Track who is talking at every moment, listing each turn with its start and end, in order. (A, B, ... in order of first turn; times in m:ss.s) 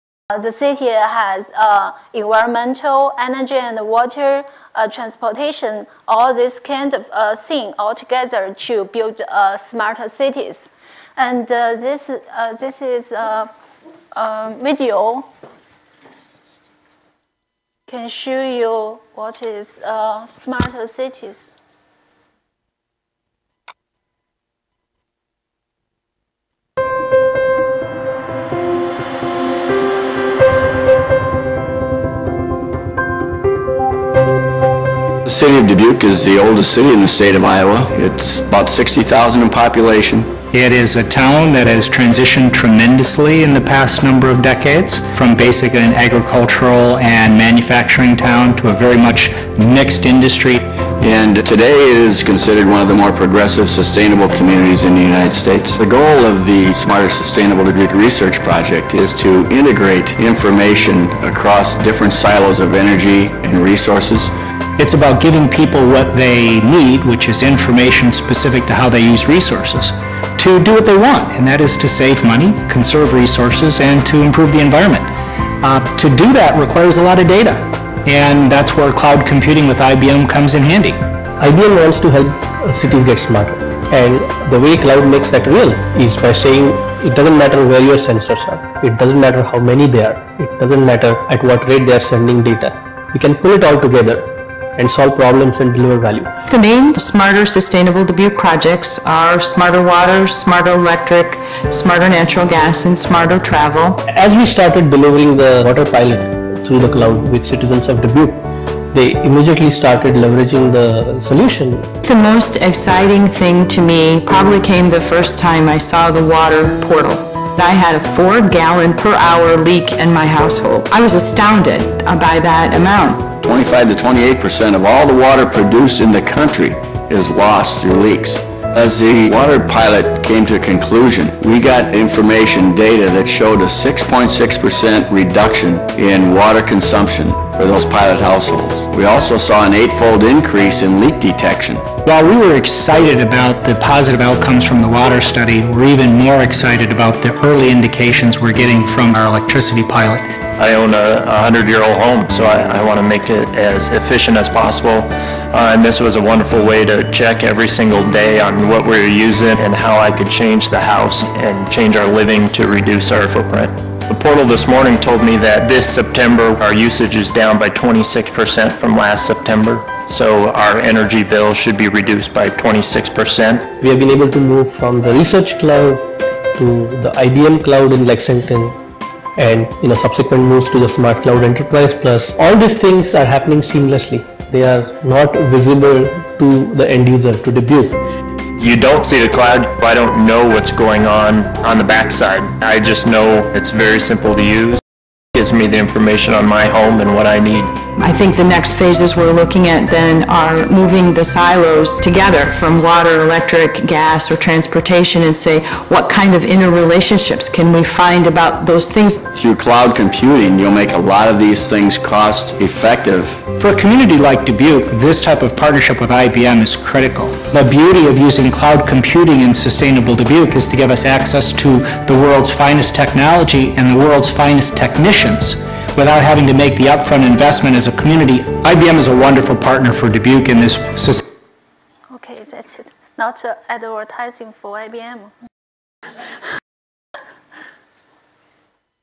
0:00.3-0:13.5 A
0:14.1-0:15.3 A
0:17.9-0:21.5 A
0:35.2-0:40.3 B
0:40.5-0:50.6 C
0:51.0-1:04.3 B
1:04.8-1:21.0 C
1:21.4-1:36.3 D
1:36.4-1:44.0 E
1:44.1-1:51.9 D
1:52.0-2:03.3 E
2:03.4-2:21.8 B
2:22.0-2:30.3 C
2:30.6-2:53.7 F
2:53.8-2:58.8 D
2:59.4-3:08.0 D
3:08.6-3:14.8 F
3:15.3-3:17.8 F
3:18.0-3:29.2 E
3:29.3-3:33.4 B
3:33.6-3:51.2 C
3:52.1-3:55.3 A